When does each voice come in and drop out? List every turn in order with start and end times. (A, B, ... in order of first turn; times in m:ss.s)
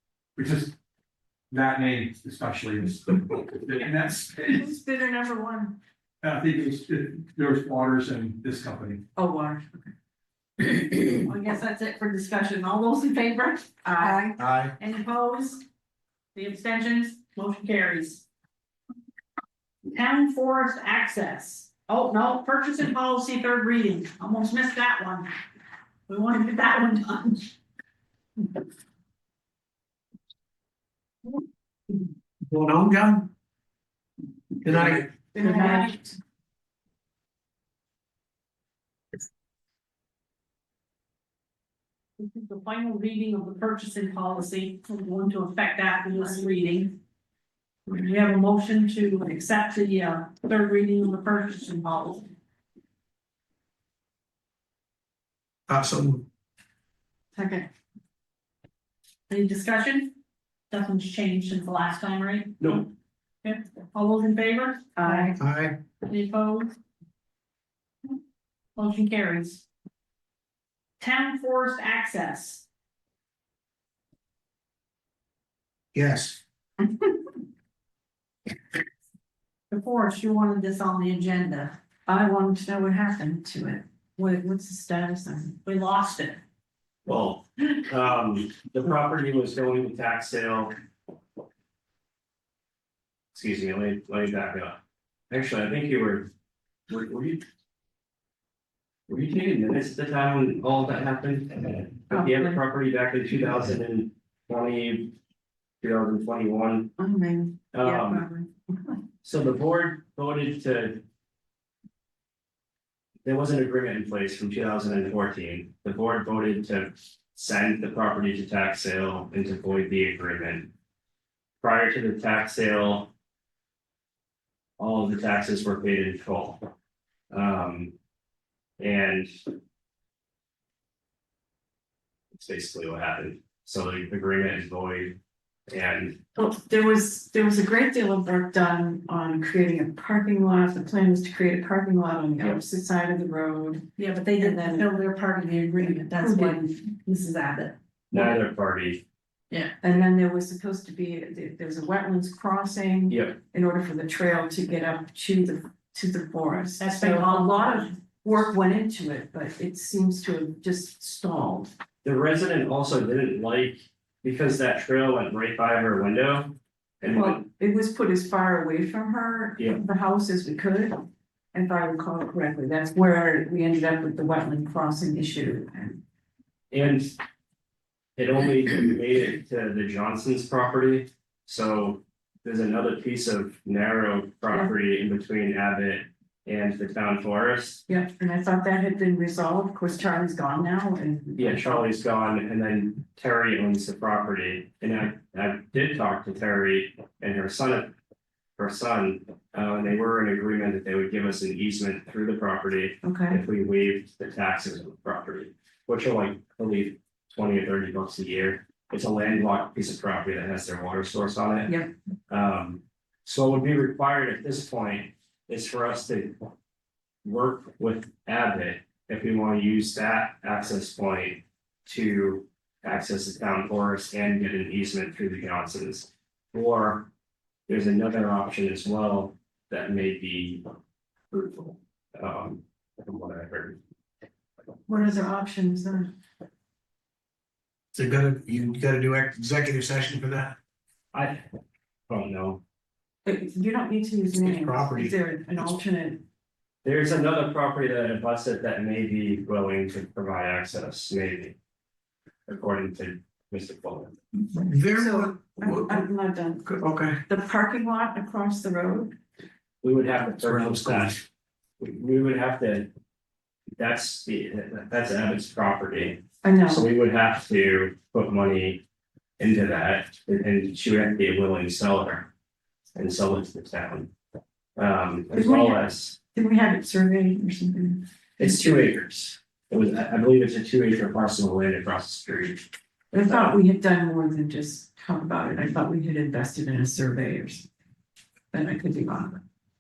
0:00.4-0:00.7 A
0:01.5-0:04.6 A
0:04.5-0:05.8 B
0:06.2-0:09.0 A
0:09.1-0:09.8 B
0:11.0-0:15.6 C
0:13.8-0:14.3 B
0:14.4-0:14.7 D
0:16.3-0:18.2 C
0:19.8-0:25.3 C
0:26.1-0:27.5 C
0:32.5-0:33.3 D
0:34.6-0:35.1 D
0:35.3-0:36.2 B
0:35.4-0:35.9 C
0:42.2-0:47.0 C
0:47.9-0:52.3 C
0:55.7-0:56.3 D
0:57.4-0:57.7 B
0:59.3-1:00.1 C
1:00.7-1:02.8 C
1:02.6-1:02.9 E
1:03.4-1:05.4 C
1:05.0-1:05.4 B
1:05.4-1:05.8 D
1:06.0-1:06.8 C
1:08.8-1:09.6 C
1:11.0-1:12.6 C
1:15.9-1:16.4 D
1:19.7-1:21.8 C
1:22.1-1:25.6 B
1:25.6-1:26.4 C
1:27.1-1:30.7 E
1:33.3-1:34.8 E
1:35.3-1:36.3 E
1:36.9-1:37.4 E
1:39.1-1:45.1 E
1:42.1-1:42.6 B
1:45.8-1:46.9 E
1:47.0-1:48.5 B
1:47.7-1:48.2 E
1:49.2-1:51.0 E
1:53.2-2:00.7 E
2:01.6-2:03.1 E
2:04.8-2:06.6 E
2:07.3-2:07.9 E
2:08.8-2:09.3 E
2:12.3-2:15.2 E
2:15.7-2:16.2 E
2:16.4-2:23.9 B
2:24.0-2:27.8 C
2:24.4-2:24.9 B
2:25.8-2:26.6 B
2:28.1-2:29.0 E
2:29.5-2:29.8 C
2:29.8-2:41.7 B
2:33.1-2:33.4 E
2:36.8-2:37.9 C
2:42.0-2:47.4 E
2:47.1-2:51.0 B
2:51.5-2:56.0 B
2:56.7-2:57.2 E
2:58.2-3:07.9 E
3:07.9-3:11.9 B
3:11.4-3:17.9 E
3:18.6-3:31.8 E
3:23.0-3:23.4 B
3:32.3-3:36.4 E
3:37.2-3:47.1 E
3:47.7-3:50.6 E
3:51.3-3:53.8 E
3:54.9-3:56.1 B
3:57.9-4:00.6 D
4:01.1-4:01.4 E
4:02.1-4:02.6 E
4:03.2-4:06.2 B
4:04.4-4:05.7 D
4:06.8-4:11.6 E
4:12.5-4:14.2 E
4:14.5-4:16.1 D
4:14.9-4:16.7 B
4:16.6-4:17.2 D
4:17.2-4:19.1 B
4:19.8-4:21.2 E
4:20.4-4:21.2 D
4:21.8-4:22.9 E
4:23.8-4:28.8 E
4:26.4-4:26.9 B
4:29.4-4:32.3 E
4:33.0-4:34.1 E
4:34.8-4:36.2 E
4:35.3-4:38.6 B
4:38.4-4:42.7 E
4:43.1-4:47.7 B
4:43.3-4:43.6 E
4:48.5-4:49.4 B